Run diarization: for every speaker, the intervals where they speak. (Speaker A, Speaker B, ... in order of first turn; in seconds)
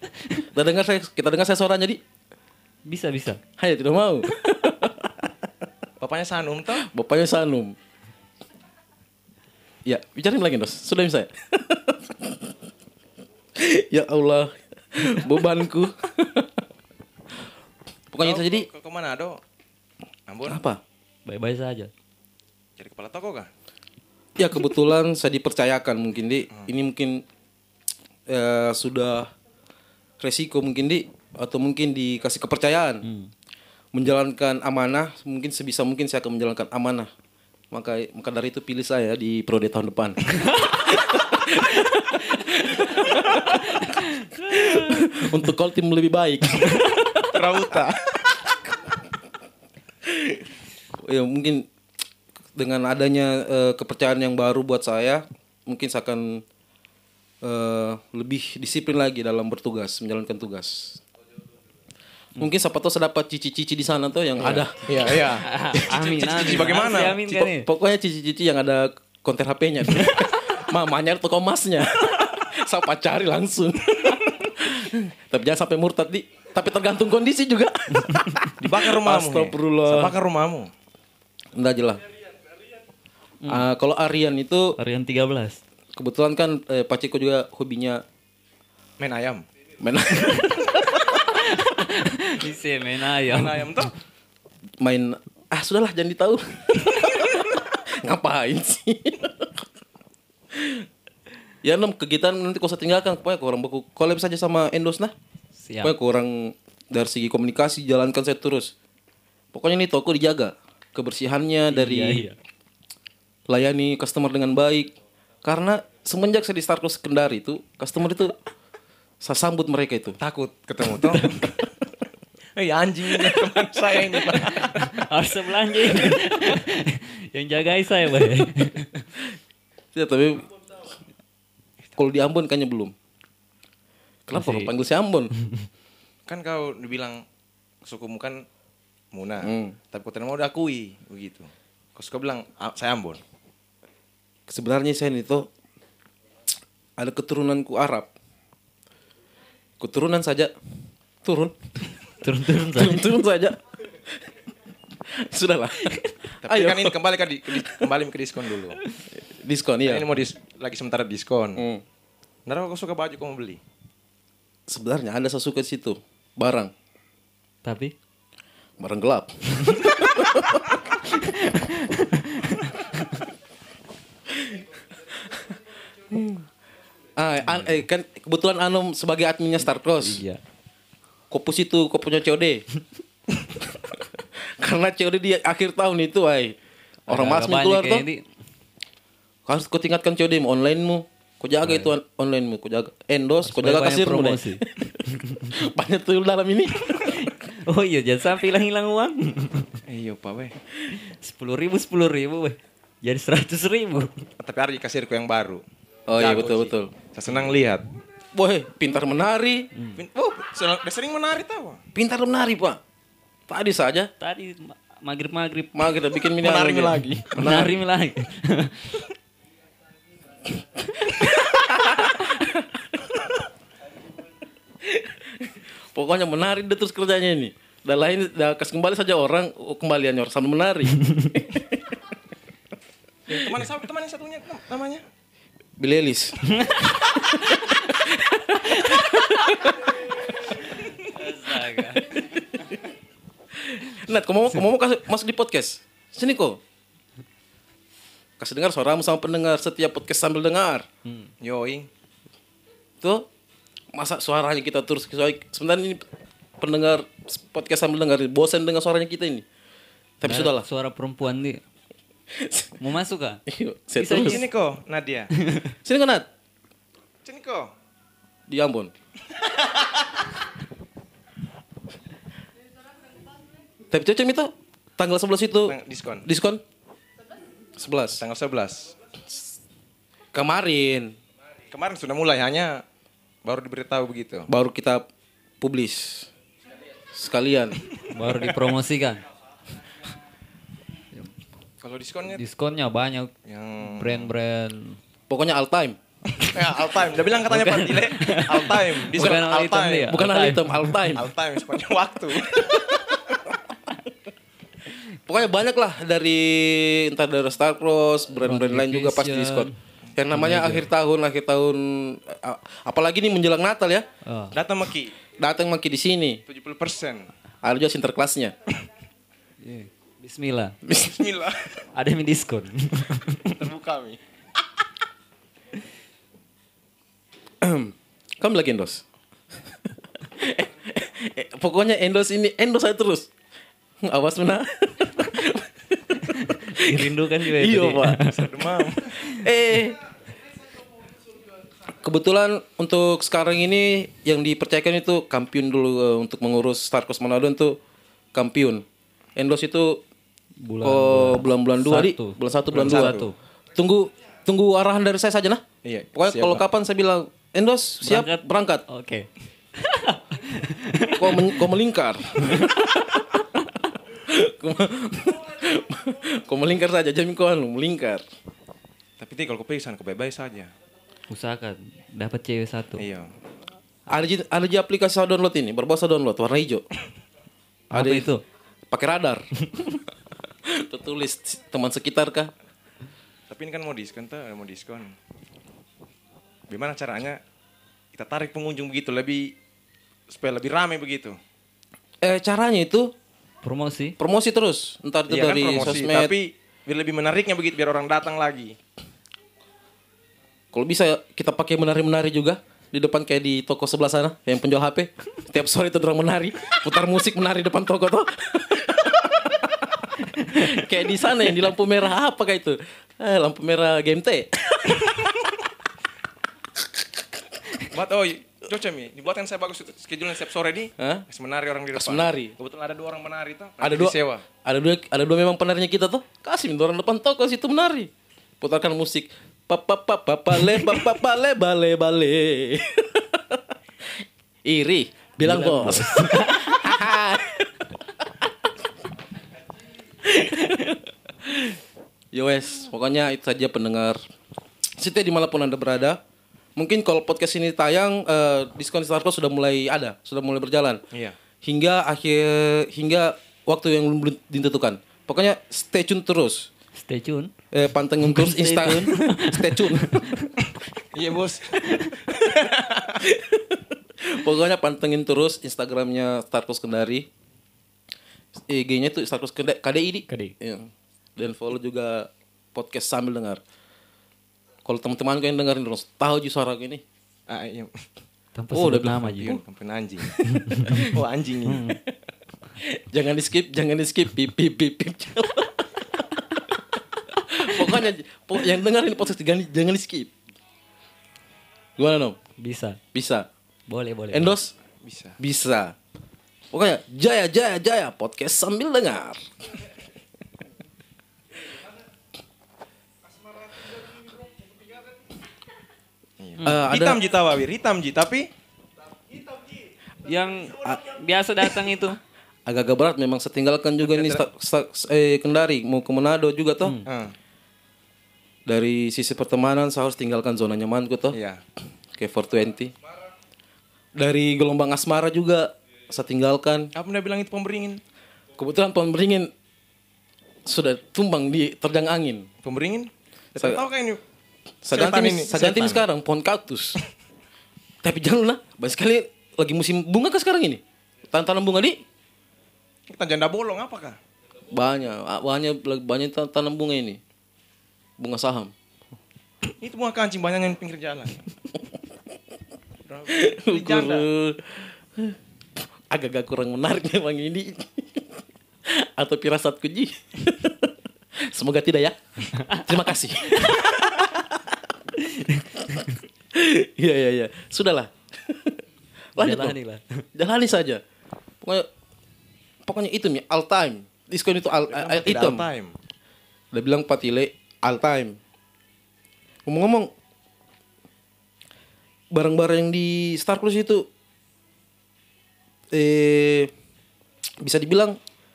Speaker A: 0.5-2.0, 3.6-5.5, 6.8-7.8, 9.8-12.5, 13.6-16.6, 18.1-18.7, 20.5-20.8, 24.4-27.2, 28.3-29.3, 30.2-33.1, 33.9-37.1, 37.7-43.8, 44.4-47.9, 50.0-50.4, 51.0-51.7, 52.5-56.4, 57.4-61.0, 62.4-65.3, 67.6-80.2, 81.5-82.0, 83.5-84.8, 86.0-88.0, 89.8-91.1, 94.8-99.7, 100.5-100.9, 101.6-105.1, 105.8-108.7, 109.5-112.3, 113.5-118.4, 119.2-120.2, 129.9-130.5, 132.0-132.9, 134.3-135.3, 139.4-139.8, 144.5-145.5, 147.0-148.1, 149.8-150.5, 151.2-151.6, 152.6-153.6, 155.1-157.9, 159.1-160.1, 161.6-161.8, 164.7-166.7, 168.8-170.8, 174.3-176.5, 177.2-180.2, 181.3-182.6, 184.6-186.6, 187.1-188.1, 189.5-194.9, 195.5-197.3, 206.1-206.9, 208.3-209.7, 211.9-212.8, 213.5-214.1, 215.7-217.8, 221.2-223.2, 224.8-231.8, 235.8-240.1, 242.2-242.4, 243.6-246.6, 248.4-250.9, 253.0-253.3, 253.9-256.0, 256.6-259.4, 260.2-260.7, 262.3-262.7, 263.5-264.4, 265.8-266.3, 268.5-268.9, 273.9-276.6, 277.8-278.2, 280.3-281.2, 284.5-285.1, 285.6-286.3, 287.1-287.8, 295.3-296.0, 299.2-299.5, 300.0-301.3, 302.6-303.4, 305.3-314.1, 315.4-316.4, 317.6-318.6, 320.9-321.2, 327.6-329.0, 330.2-333.3, 334.0-338.2, 339.1-340.0, 341.9-347.8, 348.3-348.9, 349.4-350.0, 350.8-353.2, 353.8-355.6, 356.1-358.9, 361.2-363.4, 364.1-368.2, 374.1-376.9, 377.9-378.3, 378.9-379.5, 380.6-382.5, 392.2-393.1, 394.2-396.4, 400.7-415.3, 421.0-421.3, 421.9-422.5, 423.8-433.7, 434.6-438.5, 440.2-441.8, 442.3-444.2, 445.0-446.2, 446.8-451.0, 451.6-456.7, 457.7-460.2, 463.2-467.3, 468.6-473.6, 474.9-477.0, 478.7-479.6, 480.4-480.7, 482.8-486.8, 487.4-490.3, 492.0-492.4, 493.1-493.5, 494.3-494.7, 495.4-495.9, 496.7-499.5, 506.6-507.2, 512.7-517.0, 518.7-521.4, 522.1-522.9, 524.2-526.9, 528.6-529.5, 530.6-532.5, 533.6-533.8, 534.8-537.0, 538.0-542.0, 544.7-547.2, 548.2-548.7, 553.3-555.4, 556.1-564.8, 566.5-568.8, 569.4-569.8, 570.4-571.0, 571.6-571.9, 572.9-575.7, 576.7-578.4, 579.7-580.1, 582.3-584.1, 585.9-586.7, 587.6-588.2
Speaker B: 2.9-3.4, 21.3-21.9, 33.0-33.3, 43.9-45.1, 65.3-67.7, 78.1-78.4, 84.8-85.6, 90.2-93.7, 105.5-105.9, 111.7-112.4, 124.3-129.0, 134.3-134.7, 135.4-135.7, 152.2-153.1, 167.6-167.9, 171.1-173.2, 180.0-180.4, 187.1-188.2, 191.6-191.9, 193.4-195.5, 196.9-199.8, 200.9-204.2, 209.8-210.0, 214.2-215.8, 217.3-219.0, 231.0-231.3, 236.5-237.8, 238.7-239.7, 240.5-242.4, 251.1-251.3, 260.2-261.6, 262.8-263.4, 264.0-264.4, 265.4-265.7, 288.1-289.2, 292.3-295.0, 297.5-301.1, 308.4-309.8, 310.3-310.9, 314.2-314.6, 319.6-320.8, 321.9-323.6, 336.2-338.4, 350.6-353.4, 358.0-361.7, 362.4-362.7, 371.3-373.0, 377.9-378.4, 393.6-394.2, 410.4-410.8, 435.4-436.9, 456.9-457.5, 458.2-460.6, 470.3-470.6, 478.6-479.5, 480.5-481.1, 481.7-482.0, 492.6-493.0, 493.9-494.5, 510.2-512.2, 562.6-562.9, 565.2-566.1, 569.4-570.2
Speaker C: 6.0-6.9, 18.2-19.4, 20.3-20.6, 22.8-23.5, 47.3-48.2, 64.4-67.5, 78.6-80.7, 89.0-89.4, 93.3-93.9, 120.2-121.5, 122.6-125.0, 136.3-137.2, 137.8-138.4, 139.1-143.2, 156.4-158.8, 159.8-161.6, 162.5-163.6, 199.9-200.5, 204.4-207.8, 210.0-211.8, 216.4-217.5, 233.3-235.0, 251.4-251.9, 264.1-265.3, 267.2-267.7, 275.7-276.2, 278.2-278.9, 281.7-282.8, 283.4-284.5, 291.8-292.4, 293.5-294.3, 296.4-300.2, 301.1-302.8, 314.5-315.2, 316.5-317.3, 321.0-321.8, 323.5-324.2, 338.3-339.2, 352.7-353.3, 355.9-356.6, 369.2-370.7, 373.0-373.3, 383.5-385.1, 386.7-387.4, 388.1-389.5, 390.3-391.4, 395.3-398.8, 417.8-424.5, 461.1-463.2, 477.5-477.9, 479.4-480.4, 480.9-482.0, 495.0-495.4, 506.4-508.5, 514.0-514.5, 517.1-517.3, 521.3-521.6, 527.0-528.0, 532.6-534.2, 534.9-536.0, 543.1-544.2, 549.8-551.4, 553.1-554.3, 574.9-576.0